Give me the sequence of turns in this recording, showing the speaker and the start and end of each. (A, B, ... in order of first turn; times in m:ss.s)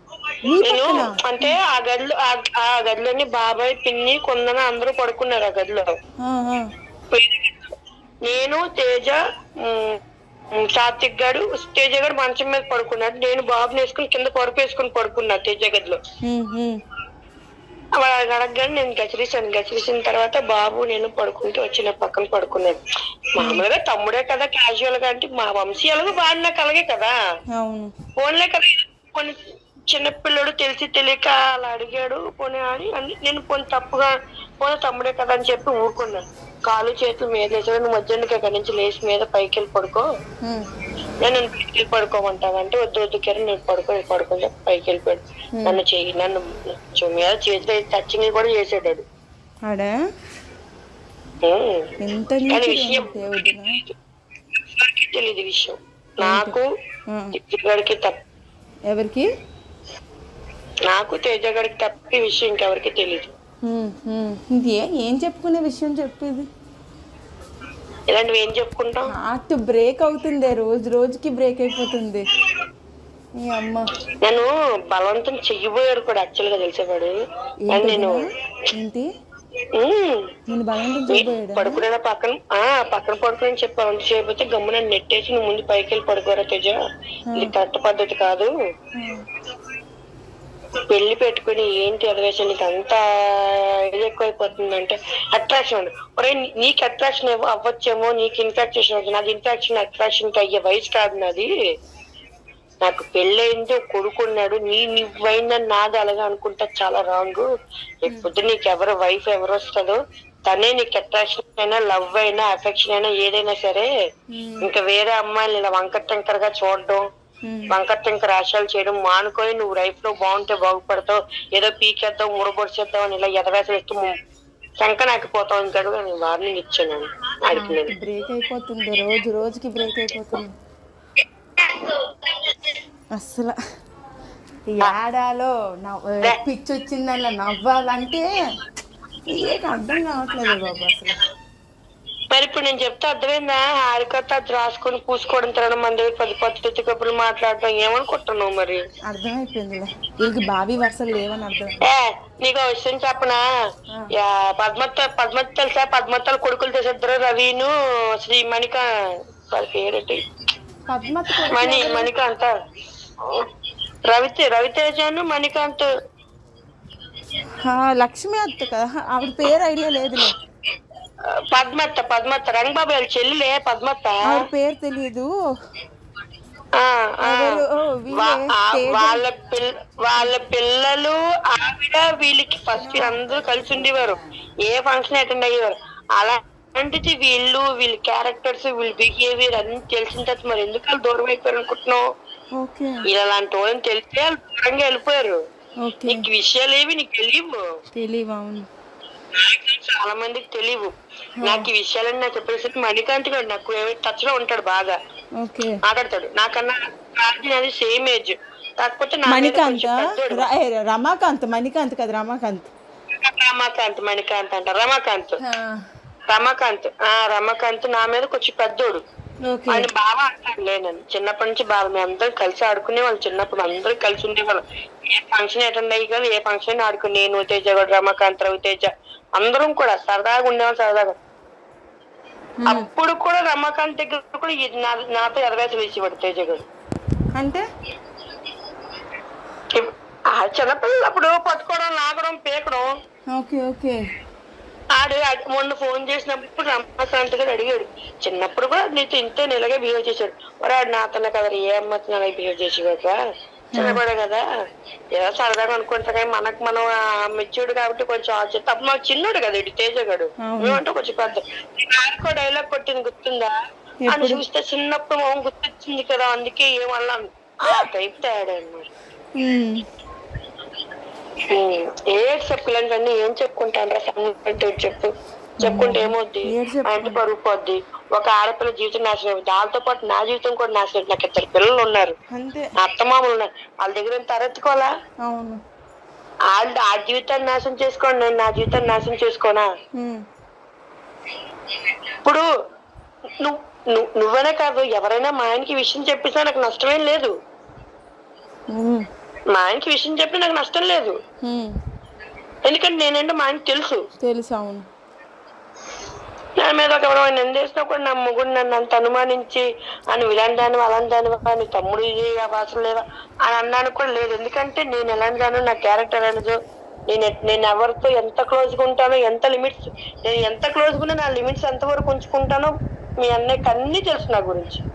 0:00.5-0:01.6 A
0:00.6-0:05.9 B
0:06.2-0:06.6 A
0:07.1-0:07.7 B
0:08.2-0:10.0 B
0:10.6-0:16.0 B
0:16.2-0:16.8 A
0:18.0-0:22.8 B
0:23.4-0:27.1 B
0:23.4-0:23.6 A
0:27.5-0:27.9 A
0:28.2-0:29.4 B
0:29.9-0:40.1 B
0:41.2-0:49.0 B
0:49.7-0:49.9 A
0:51.4-0:51.8 B
0:52.0-0:53.8 A
0:52.5-0:53.2 B
0:54.6-0:56.7 B
0:56.2-0:56.6 A
0:57.4-0:58.2 B
0:58.9-0:59.3 A
1:00.9-1:03.3 B
1:03.6-1:06.5 A
1:08.1-1:09.1 B
1:09.1-1:12.2 A
1:13.4-1:13.9 A
1:14.2-1:17.2 B
1:17.7-1:18.2 A
1:17.7-1:18.2 B
1:18.7-1:19.1 A
1:19.8-1:20.3 B
1:20.5-1:21.8 A
1:21.1-1:26.8 B
1:27.4-1:28.5 B
1:29.0-1:29.2 A
1:30.9-1:41.5 B
1:42.8-1:47.5 B
1:48.0-1:53.9 B
1:54.3-1:54.7 A
1:54.6-1:57.1 B
1:57.4-1:57.7 A
1:57.7-2:04.2 B
2:04.8-2:07.9 B
2:07.5-2:10.5 A
2:11.6-2:12.6 B
2:13.1-2:13.6 A
2:14.7-2:18.3 A
2:19.3-2:21.2 A
2:22.3-2:28.8 B
2:29.1-2:31.8 A
2:31.8-2:33.4 B
2:34.2-2:38.9 B
2:39.5-2:40.2 B
2:40.9-2:42.1 A
2:41.5-2:42.5 B
2:44.1-2:45.9 B
2:47.6-2:50.4 A
2:51.5-2:54.3 B
2:54.3-2:55.3 A
2:56.8-3:12.0 B
2:57.2-2:59.2 A
3:12.6-3:13.0 A
3:13.1-3:15.4 B
3:15.8-3:16.2 A
3:16.1-3:17.6 B
3:17.9-3:18.7 A
3:19.4-3:20.9 B
3:21.4-3:21.7 A
3:21.4-3:25.0 B
3:25.4-3:25.8 A
3:25.8-3:30.5 B
3:29.3-3:32.7 A
3:33.2-3:35.4 B
3:35.4-3:35.8 A
3:36.3-3:39.0 B
3:39.4-3:39.9 A
3:39.7-3:51.2 B
3:52.6-3:52.9 A
3:52.7-3:56.6 B
3:57.3-3:57.6 A
3:59.7-4:02.9 B
4:03.3-4:04.0 A
4:05.0-4:13.2 B
4:13.7-4:14.0 A
4:13.8-4:14.4 B
4:15.2-4:23.5 B
4:20.4-4:20.8 A
4:24.0-4:24.4 A
4:24.1-4:28.9 B
4:29.4-4:29.8 A
4:31.5-4:42.2 B
4:35.6-4:37.2 A
4:42.3-4:42.7 A
4:42.8-4:44.9 B
4:45.2-4:45.6 A
4:46.5-4:49.7 B
4:50.0-4:50.2 A
4:53.4-4:57.3 B
4:58.7-4:59.1 A
4:59.5-5:01.2 B
5:01.4-5:01.8 A
5:02.6-5:04.0 B
5:04.2-5:04.8 A
5:06.6-5:16.6 B
5:17.1-5:24.8 B